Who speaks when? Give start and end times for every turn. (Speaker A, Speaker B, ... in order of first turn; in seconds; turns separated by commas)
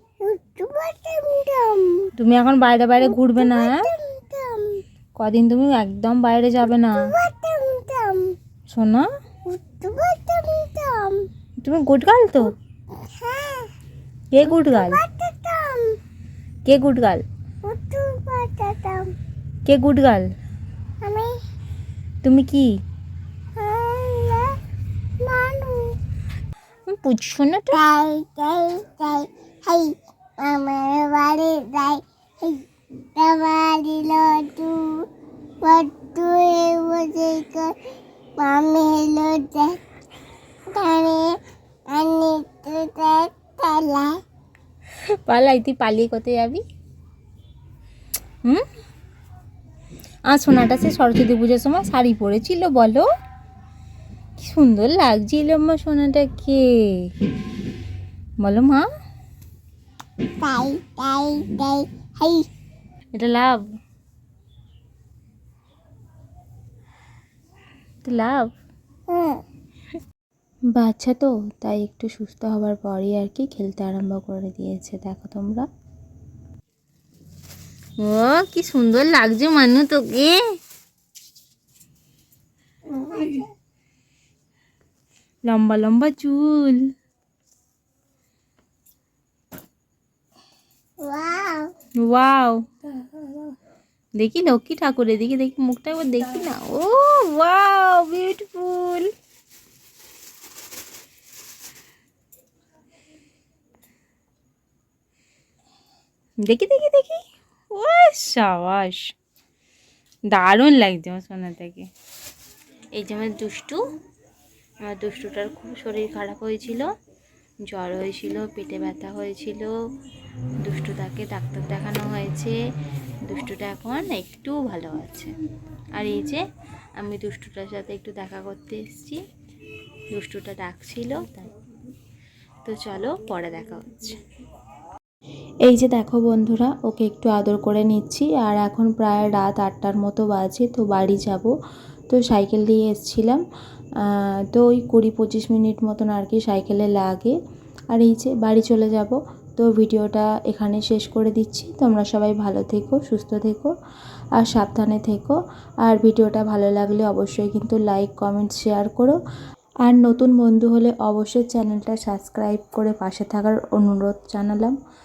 Speaker A: 0.2-2.1, Speaker B: 2.2-3.9, Speaker A: 3.0-4.8, Speaker B: 5.2-7.1, Speaker A: 6.8-8.4, Speaker B: 8.7-9.1, Speaker A: 9.5-11.3, Speaker B: 11.6-12.5, Speaker A: 12.9-13.7, Speaker B: 14.3-15.0, Speaker A: 14.4-16.0, Speaker B: 16.6-17.2, Speaker A: 17.6-19.1, Speaker B: 19.7-20.3, Speaker A: 21.0-21.4, Speaker B: 22.2-22.7, Speaker A: 23.6-24.5, Speaker A: 25.2-25.9, Speaker B: 26.9-27.8, Speaker A: 27.7-32.6, Speaker A: 33.2-35.1, Speaker A: 35.6-37.8, Speaker A: 38.4-39.8, Speaker A: 40.7-44.2, Speaker B: 45.3-46.6, Speaker B: 50.3-53.0, Speaker B: 54.4-56.6, Speaker B: 58.4-58.9, Speaker A: 60.4-62.5, Speaker B: 63.1-63.6, Speaker B: 68.0-68.5, Speaker A: 69.1-69.4, Speaker B: 70.8-75.7, Speaker B: 78.0-80.4, Speaker A: 82.9-83.5, Speaker B: 85.5-86.8, Speaker A: 91.0-91.7, Speaker B: 92.0-92.6, Speaker B: 94.2-99.1, Speaker B: 106.5-109.0, Speaker B: 110.3-111.9, Speaker B: 113.0-113.8, Speaker B: 114.9-116.9, Speaker B: 117.7-119.7, Speaker B: 120.6-122.6, Speaker B: 123.3-125.3, Speaker B: 126.0-126.4, Speaker B: 127.0-129.2, Speaker B: 130.1-131.5, Speaker B: 132.7-134.2, Speaker B: 135.7-141.5, Speaker B: 142.1-143.4, Speaker B: 144.1-147.3, Speaker B: 147.9-153.7, Speaker B: 154.4-159.2, Speaker B: 159.8-164.7